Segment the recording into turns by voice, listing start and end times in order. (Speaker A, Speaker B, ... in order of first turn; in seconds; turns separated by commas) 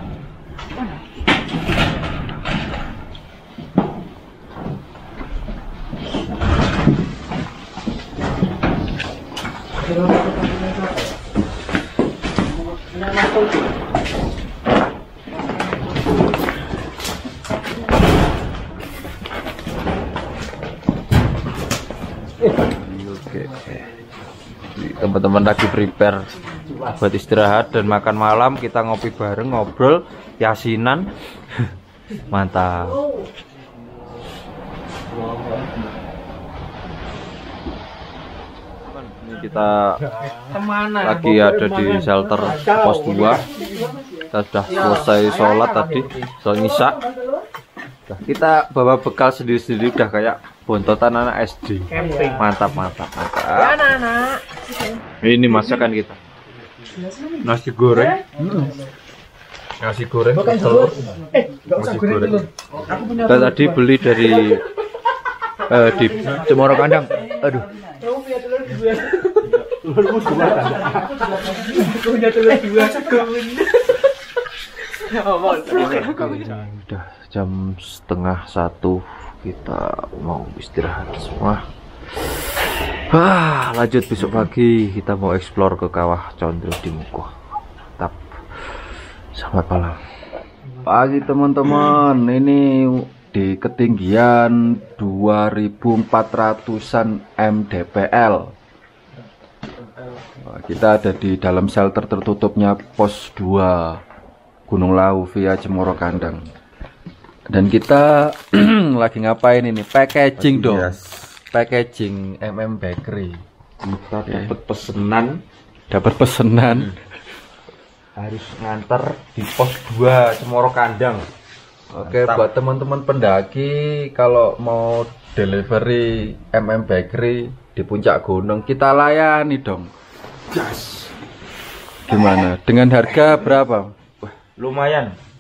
Speaker A: 9.9-10.8, Speaker A: 13.0-13.5, Speaker B: 22.5-23.9, Speaker B: 24.8-31.1, Speaker B: 32.3-33.0, Speaker B: 38.9-40.0, Speaker A: 40.4-44.2, Speaker B: 41.0-43.4, Speaker B: 44.3-47.0, Speaker A: 45.0-46.1, Speaker B: 48.1-53.8, Speaker A: 51.9-52.5, Speaker A: 53.5-55.0, Speaker B: 55.2-56.2, Speaker A: 56.9-58.8, Speaker B: 57.4-58.2, Speaker C: 58.4-58.7, Speaker B: 59.9-60.9, Speaker C: 59.9-61.1, Speaker A: 60.4-63.9, Speaker B: 61.8-62.4, Speaker B: 63.2-64.6, Speaker B: 65.7-67.6, Speaker C: 66.1-66.9, Speaker A: 67.8-74.0, Speaker A: 75.0-76.6, Speaker B: 75.7-81.6, Speaker B: 83.1-87.3, Speaker B: 89.3-90.0, Speaker C: 90.8-98.5, Speaker C: 100.4-104.0, Speaker C: 104.7-106.5, Speaker C: 107.5-111.0, Speaker B: 110.4-111.3, Speaker C: 111.5-113.4, Speaker B: 113.8-115.4, Speaker C: 115.9-117.0, Speaker B: 118.2-121.2, Speaker C: 121.9-129.9, Speaker B: 122.0-122.5, Speaker B: 130.5-131.1, Speaker C: 132.1-134.0, Speaker B: 134.4-135.2